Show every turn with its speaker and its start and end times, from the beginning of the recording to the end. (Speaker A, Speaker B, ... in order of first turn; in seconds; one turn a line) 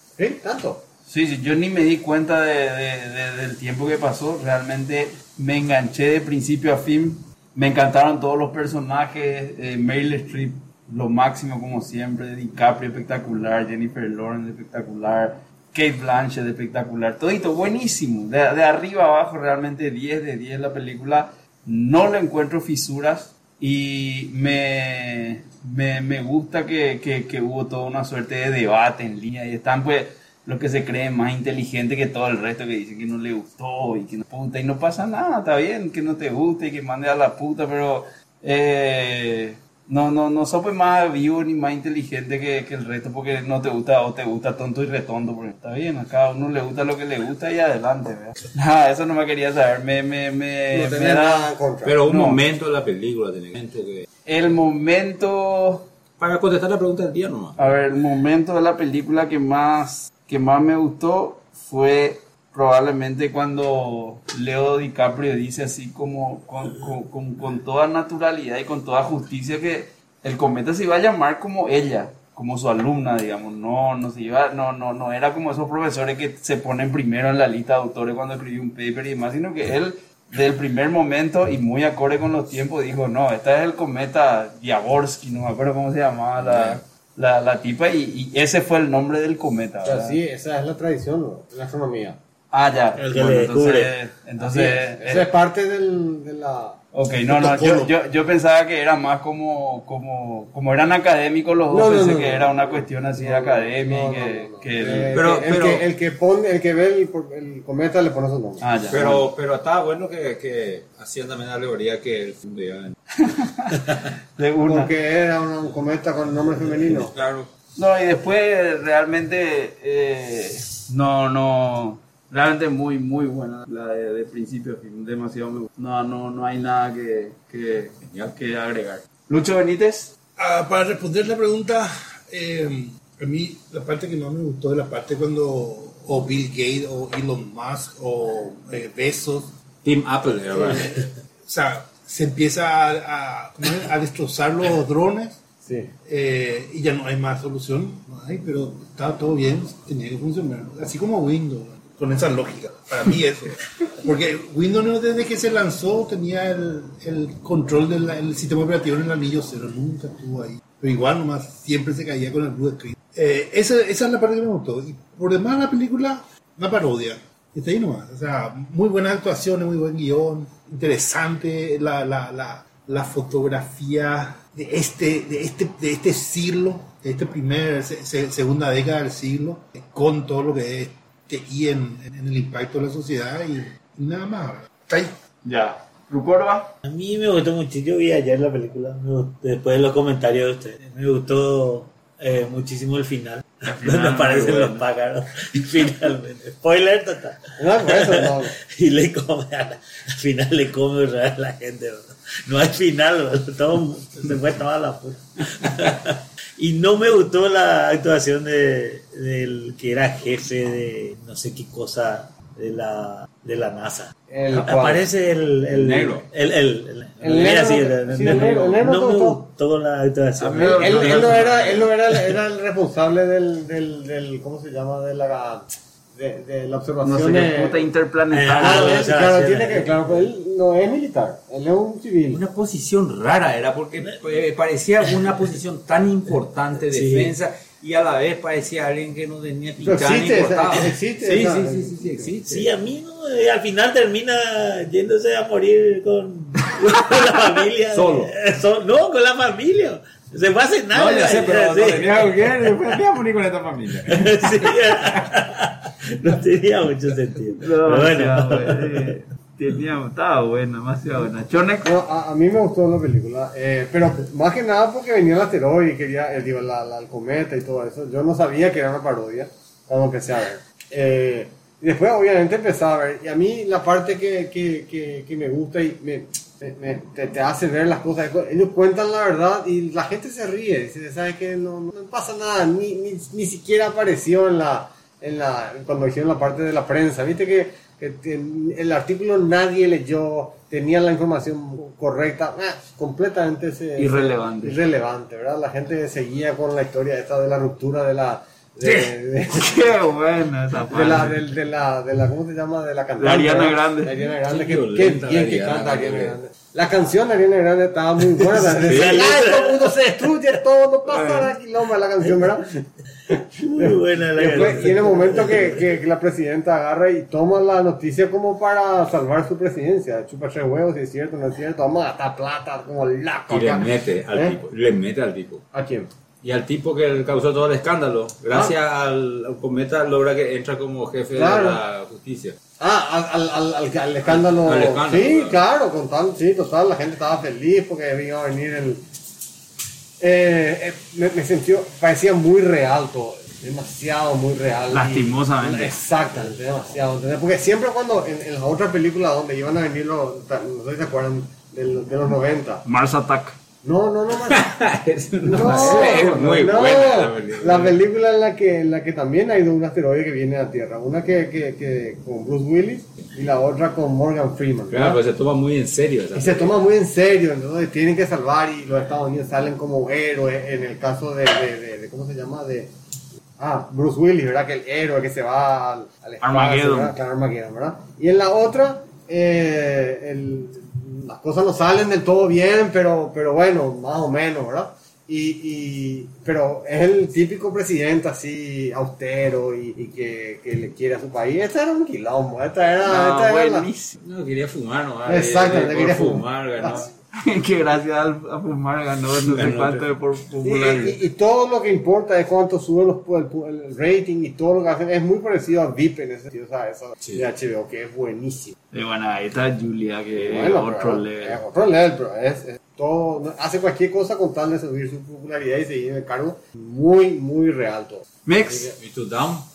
Speaker A: 0.2-0.8
Speaker B: 1.1-51.4
Speaker A: 50.7-52.0
Speaker C: 51.8-54.1
Speaker B: 52.1-52.4
Speaker B: 54.2-55.9
Speaker C: 56.2-57.6
Speaker B: 57.6-90.2
Speaker C: 86.4-86.8
Speaker A: 89.8-92.2
Speaker B: 92.5-95.3
Speaker D: 92.9-93.9
Speaker A: 94.4-96.8
Speaker B: 96.9-105.1
Speaker E: 97.3-97.9
Speaker A: 101.7-108.6
Speaker C: 105.1-105.8
Speaker B: 108.6-109.2
Speaker C: 108.9-112.9
Speaker B: 113.2-114.9
Speaker A: 114.6-117.1
Speaker C: 116.8-117.5
Speaker B: 117.8-130.1
Speaker E: 130.4-139.5
Speaker C: 139.8-141.0
Speaker E: 140.6-145.4
Speaker A: 145.6-145.9
Speaker E: 146.1-185.2
Speaker B: 185.4-186.7
Speaker D: 186.8-221.2
Speaker A: 197.6-198.6
Speaker A: 214.3-215.1
Speaker C: 215.7-216.2
Speaker A: 217.2-219.5
Speaker C: 220.4-221.9
Speaker B: 220.4-221.8
Speaker A: 220.6-227.8
Speaker B: 227.0-229.1
Speaker D: 228.3-230.3
Speaker A: 228.6-232.4
Speaker C: 232.3-242.7
Speaker D: 236.9-237.3
Speaker A: 239.8-242.3
Speaker D: 242.4-252.8
Speaker C: 247.9-248.3
Speaker C: 250.9-255.3
Speaker D: 254.0-259.1
Speaker B: 257.6-261.9
Speaker A: 261.8-299.8
Speaker B: 294.0-294.8
Speaker B: 298.8-301.4
Speaker A: 300.9-324.6
Speaker B: 303.2-304.1
Speaker C: 304.4-306.4
Speaker D: 308.6-310.1
Speaker C: 308.9-309.2
Speaker D: 313.6-315.9
Speaker C: 323.5-325.6
Speaker A: 325.7-326.1
Speaker C: 326.4-332.6
Speaker A: 331.3-331.8
Speaker A: 332.8-339.1
Speaker C: 334.2-335.6
Speaker A: 340.2-352.8
Speaker B: 344.9-346.0
Speaker B: 352.8-353.6
Speaker A: 353.8-354.6
Speaker C: 354.3-358.0
Speaker A: 355.4-365.2
Speaker B: 355.6-356.2
Speaker C: 364.9-366.8
Speaker A: 366.3-372.9
Speaker A: 373.6-393.9
Speaker B: 376.4-377.1
Speaker B: 393.0-394.1
Speaker C: 394.2-397.1
Speaker A: 395.2-397.1
Speaker B: 397.3-401.2
Speaker D: 399.6-399.9
Speaker A: 400.6-408.7
Speaker B: 408.9-411.6
Speaker A: 410.3-418.9
Speaker B: 418.4-418.9
Speaker C: 419.0-419.7